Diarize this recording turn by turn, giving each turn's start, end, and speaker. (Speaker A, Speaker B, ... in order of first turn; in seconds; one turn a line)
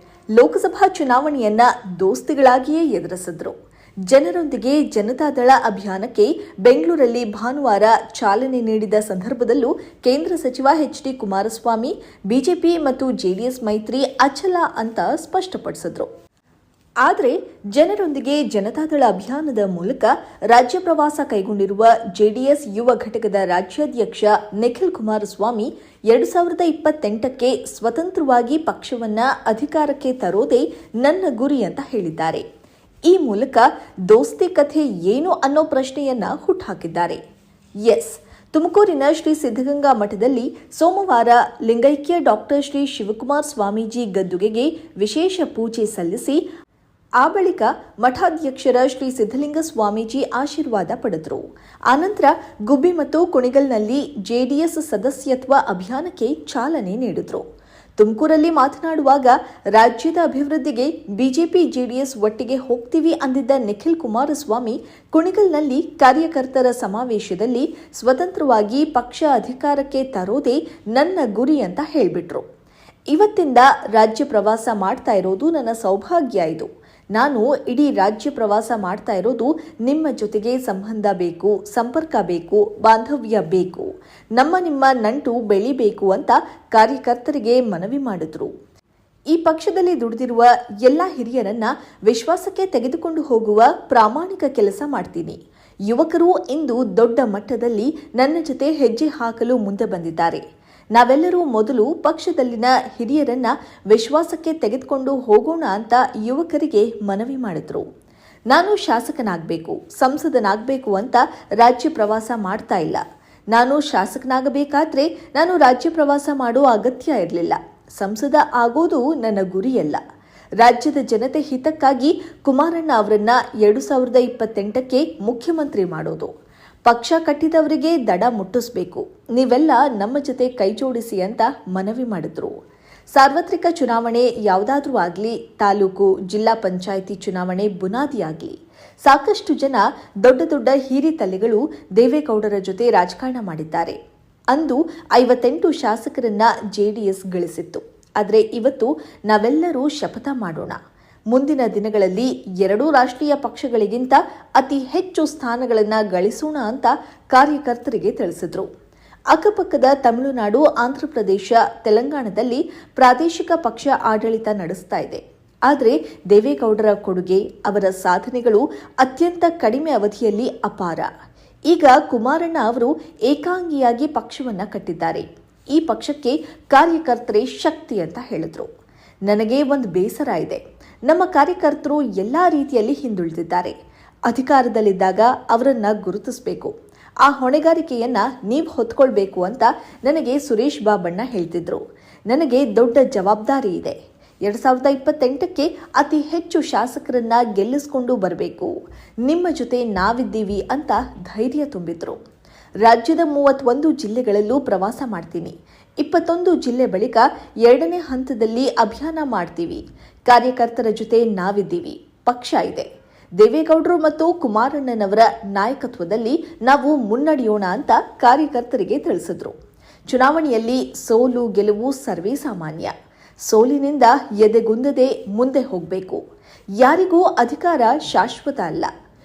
Speaker A: 0.4-3.6
Speaker A: 4.1-16.1
Speaker A: 17.0-32.5
Speaker A: 33.1-37.2
Speaker A: 37.8-46.4
Speaker A: 47.2-57.5
Speaker A: 58.0-72.5
Speaker A: 73.1-88.5
Speaker A: 89.3-100.4
Speaker A: 100.9-107.9
Speaker A: 108.5-120.0
Speaker A: 120.6-126.3
Speaker A: 126.9-132.6
Speaker A: 133.1-144.0
Speaker A: 144.5-150.8
Speaker A: 151.3-158.7
Speaker A: 159.3-171.1
Speaker A: 171.7-178.7
Speaker A: 179.3-183.7
Speaker A: 184.3-186.7
Speaker A: 187.2-202.2
Speaker A: 202.8-219.6
Speaker A: 220.1-222.9
Speaker A: 223.4-226.2
Speaker A: 226.8-228.9